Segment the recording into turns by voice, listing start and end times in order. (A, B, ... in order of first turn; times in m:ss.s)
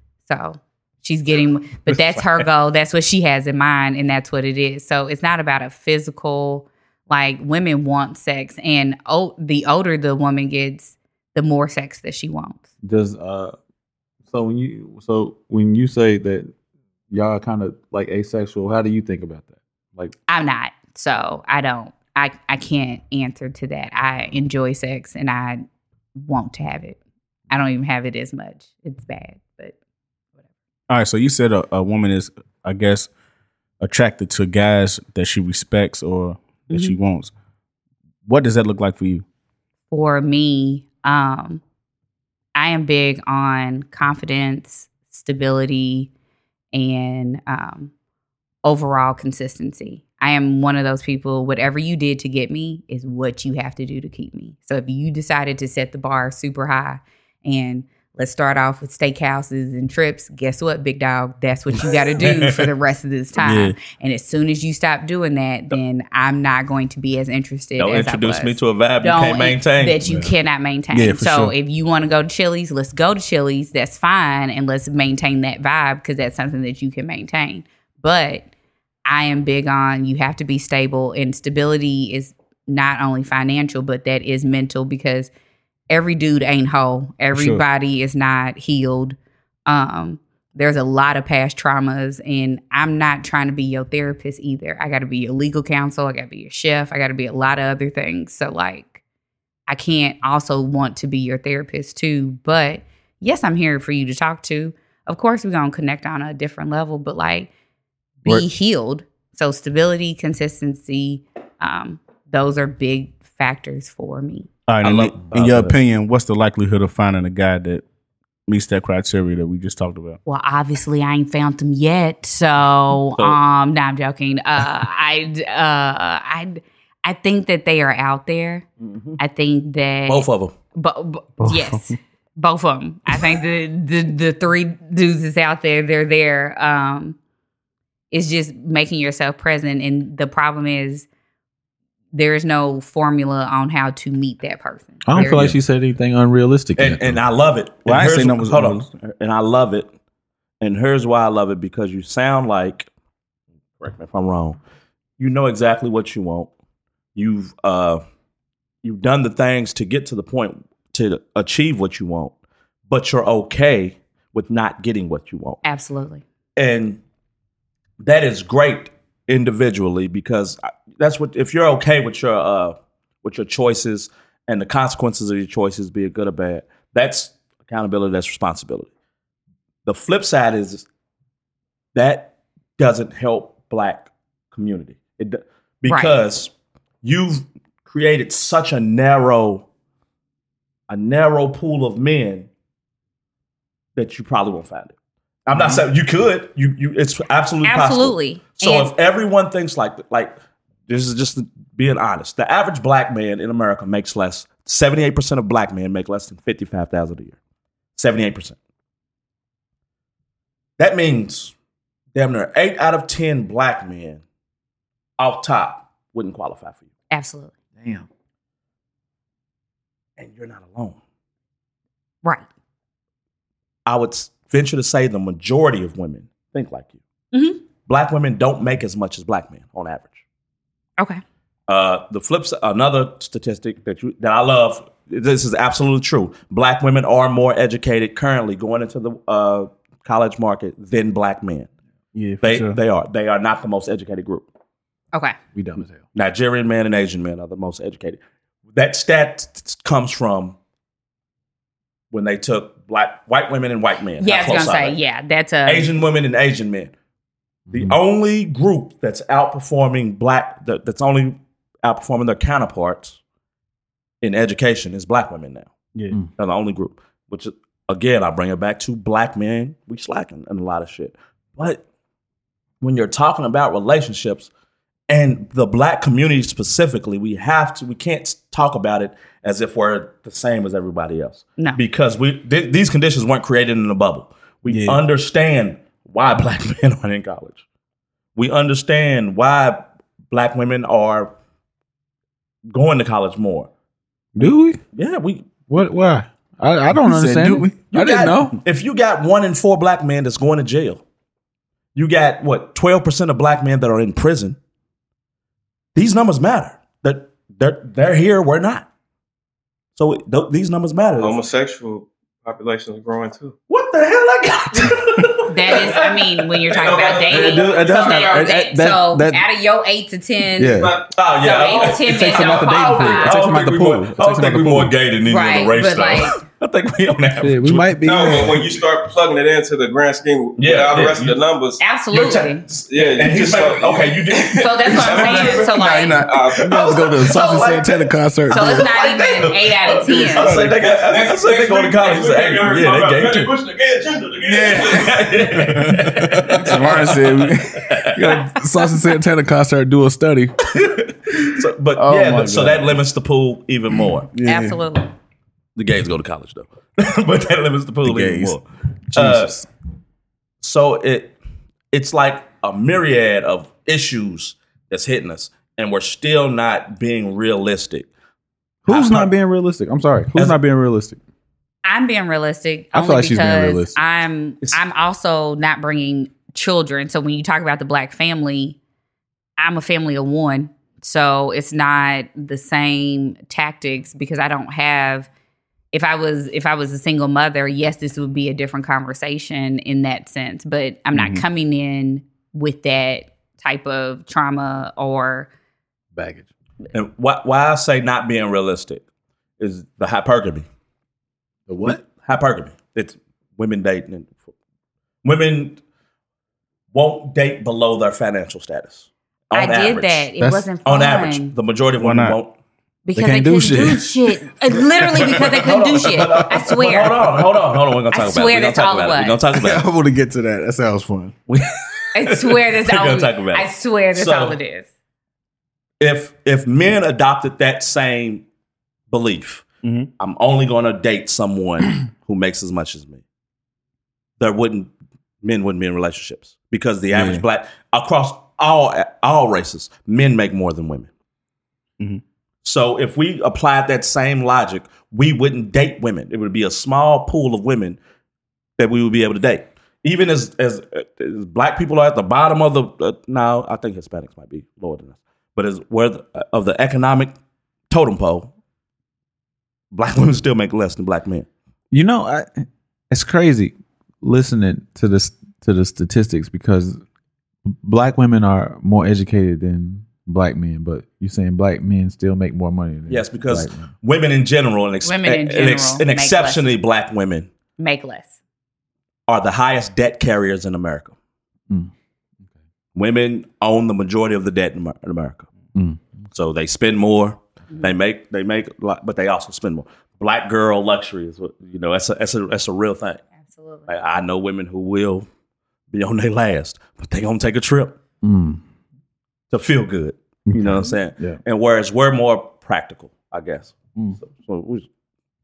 0:00.3-0:12.6 A
0:01.9-0:02.2 B
0:12.8-0:13.6 C
0:14.3-0:16.5 C
0:17.1-0:20.1 C
0:20.3-0:25.6 A
0:26.2-0:27.0 A
0:27.5-0:29.7 A
0:30.9-0:33.1 D
0:33.8-0:37.3 D
0:36.7-0:37.0 A
0:38.2-0:39.2 D
0:39.9-0:41.6 A
0:42.5-0:46.1 A
0:46.7-0:47.9 A
0:48.6-1:18.5 A
1:02.2-1:02.6 B
1:03.4-1:03.7 D
1:07.8-1:10.1 B
1:10.0-1:10.3 C
1:10.9-1:11.5 D
1:19.0-1:25.3 A
1:25.9-1:39.0 A
1:27.3-1:27.6 D
1:39.7-1:47.5 A
1:48.2-1:54.5 A
1:54.7-1:57.8 D
1:54.8-1:55.7 B
1:58.5-2:00.2 D
2:00.2-2:08.6 A
2:08.8-2:09.2 B
2:09.2-2:17.2 A
2:10.1-2:10.5 B
2:11.4-2:11.8 D
2:18.1-2:21.1 A
2:22.1-2:25.5 A
2:25.0-2:27.2 C
2:25.2-2:25.5 B
2:26.8-2:29.9 B
2:27.8-2:28.9 D
2:30.6-2:32.9 B
2:33.8-2:34.6 B
2:35.2-2:36.5 B
2:37.1-2:38.0 B
2:38.8-2:42.3 B
2:42.9-2:45.6 B
2:45.6-2:46.2 A
2:46.6-2:47.0 B
2:48.0-2:58.9 B
2:59.8-3:00.8 B
3:01.9-3:06.5 B
3:05.9-3:06.2 A
3:07.0-3:09.7 B
3:10.9-3:12.5 B
3:14.0-3:14.9 B
3:15.5-3:20.3 B
3:17.6-3:18.9 A
3:20.9-3:27.4 B
3:28.0-3:28.6 B
3:30.8-3:31.5 B
3:32.1-3:34.2 B
3:35.2-3:36.8 B
3:37.1-3:37.5 A
3:37.8-3:38.0 C
3:40.2-3:41.0 B
3:43.8-3:47.0 B
3:47.3-3:47.6 A
3:47.9-3:50.2 B
3:51.7-4:01.7 B
4:02.1-4:02.8 D
4:02.4-4:04.4 B
4:05.5-4:06.0 C
4:06.1-4:08.2 B
4:08.7-4:10.6 B
4:12.1-4:15.0 B
4:14.2-4:15.9 A
4:15.6-4:16.9 B
4:17.7-4:18.0 C
4:17.7-4:23.2 B
4:24.2-4:25.7 B
4:26.4-4:31.8 B
4:32.8-4:34.5 B
4:35.1-4:47.6 B
4:44.7-4:45.0 D
4:48.4-4:51.3 B
4:52.7-4:53.7 B
4:54.4-4:54.8 C
4:54.9-4:55.5 B
4:55.7-4:58.6 C
4:57.0-4:57.8 D
4:57.9-5:01.0 B
5:01.9-5:04.6 B
5:05.9-5:08.9 B
5:10.0-5:11.4 B
5:11.2-5:13.6 E
5:13.7-5:16.1 B
5:15.5-5:20.8 A
5:15.7-5:16.1 E
5:16.7-5:18.5 E
5:16.8-5:17.4 B
5:17.3-5:19.4 C
5:20.6-5:21.0 C
5:20.6-5:21.9 E
5:21.1-5:28.6 B
5:21.4-5:23.4 A
5:22.0-5:24.9 C
5:25.2-5:26.4 A
5:27.4-5:28.6 C
5:28.0-5:31.8 E
5:30.6-5:31.4 B
5:31.8-5:32.6 A
5:32.1-5:35.6 B
5:32.9-5:37.3 E
5:34.6-5:36.3 A
5:35.6-5:36.6 D
5:36.6-5:38.9 C
5:36.7-5:43.5 B
5:38.5-5:40.6 A
5:40.3-5:45.5 E
5:44.5-5:48.0 D
5:44.9-5:48.2 B
5:48.1-5:50.5 C
5:51.4-5:54.3 B
5:52.0-5:52.9 D
5:54.3-5:54.8 D
5:54.4-5:55.1 A
5:55.8-5:59.6 B
5:58.0-5:58.5 D
5:59.1-5:59.7 D
6:00.6-6:01.4 B
6:01.9-6:08.1 B
6:08.8-6:11.2 C
6:08.9-6:09.3 B
6:11.8-6:18.8 A
6:12.9-6:14.0 C
6:19.6-6:25.3 A
6:25.9-6:35.5 A
6:31.1-6:31.4 D
6:36.1-6:36.4 C
6:36.9-6:39.0 B
6:39.6-6:40.6 B
6:41.7-6:42.0 C
6:41.8-6:44.4 B
6:45.2-6:45.8 B
6:46.9-6:50.3 B
6:49.5-6:51.5 A
6:50.4-6:50.6 C
6:50.8-6:52.5 B
6:52.0-6:52.4 D
6:53.0-6:57.2 A
6:53.1-6:54.1 C
6:55.1-6:59.9 B
6:58.1-6:59.4 A
6:59.5-7:01.3 C
7:01.5-7:04.6 B
7:02.1-7:04.9 A
7:06.0-7:08.4 B
7:09.1-7:09.6 B
7:09.8-7:10.1 D
7:10.2-7:13.2 B
7:14.4-7:14.9 B
7:15.4-7:21.1 B
7:17.1-7:17.4 D
7:22.6-7:28.0 B
7:28.8-7:37.3 B
7:37.9-7:38.5 B
7:39.9-7:41.5 B
7:41.9-7:47.0 C
7:47.7-7:53.9 C
7:53.1-7:57.5 B
7:55.0-7:56.6 A
7:57.8-7:58.4 A
7:59.3-8:01.1 B
8:02.9-8:05.5 B
8:06.3-8:13.2 B
8:13.4-8:13.9 A
8:13.9-8:15.3 B
8:15.9-8:18.0 B
8:18.2-8:18.6 C
8:19.5-8:24.8 B
8:20.5-8:21.4 C